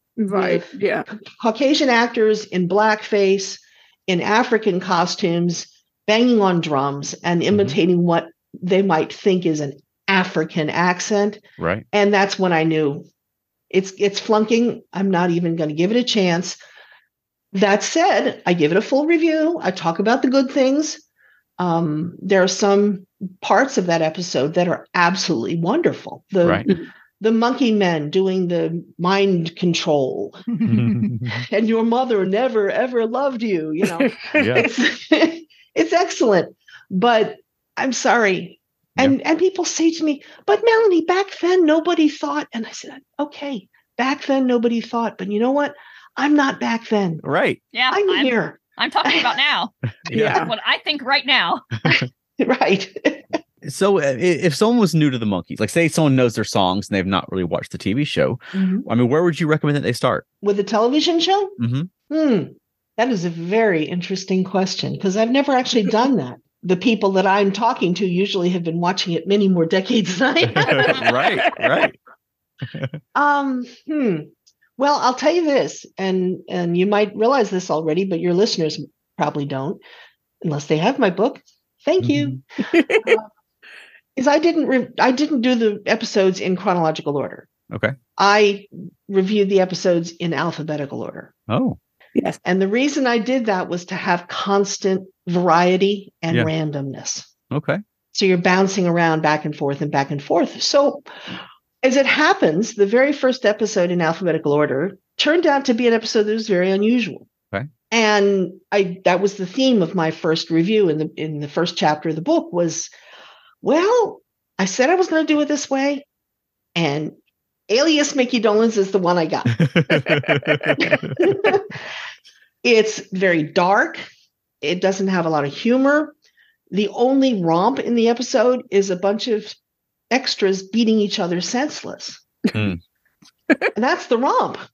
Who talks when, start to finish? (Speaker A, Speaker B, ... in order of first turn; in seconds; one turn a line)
Speaker A: 0.2-1.0
Speaker B: 0.3-11.4
Speaker C: 7.5-7.8
Speaker C: 11.6-11.8
Speaker B: 11.9-13.1
Speaker B: 13.7-16.6
Speaker B: 17.5-21.0
Speaker B: 21.6-30.4
Speaker C: 30.6-31.4
Speaker B: 31.5-47.2
Speaker A: 33.9-34.7
Speaker C: 34.4-34.6
Speaker C: 47.2-47.6
Speaker D: 47.7-49.7
Speaker B: 47.9-49.4
Speaker C: 50.0-50.4
Speaker A: 50.1-50.5
Speaker D: 50.3-51.6
Speaker B: 51.9-53.2
Speaker C: 53.6-60.2
Speaker B: 58.5-58.9
Speaker B: 60.4-61.5
Speaker C: 61.6-61.9
Speaker B: 62.1-71.1
Speaker C: 70.5-72.0
Speaker A: 70.7-71.0
Speaker C: 72.7-73.0
Speaker B: 73.1-79.8
Speaker B: 80.4-82.4
Speaker C: 82.0-82.4
Speaker A: 82.7-83.2
Speaker B: 83.0-83.3
Speaker B: 84.2-87.5
Speaker B: 88.2-91.3
Speaker C: 91.5-91.8
Speaker B: 92.4-97.3
Speaker C: 97.5-97.8
Speaker B: 98.1-101.0
Speaker B: 101.8-107.3
Speaker B: 107.9-112.9
Speaker B: 113.6-116.0
Speaker B: 116.7-117.1
Speaker B: 117.7-119.6
Speaker C: 119.6-121.2
Speaker A: 119.9-120.5
Speaker B: 120.8-121.7
Speaker B: 122.6-124.0
Speaker B: 124.6-126.1
Speaker B: 126.7-129.6
Speaker B: 130.1-132.2
Speaker C: 132.5-132.8
Speaker B: 133.7-134.6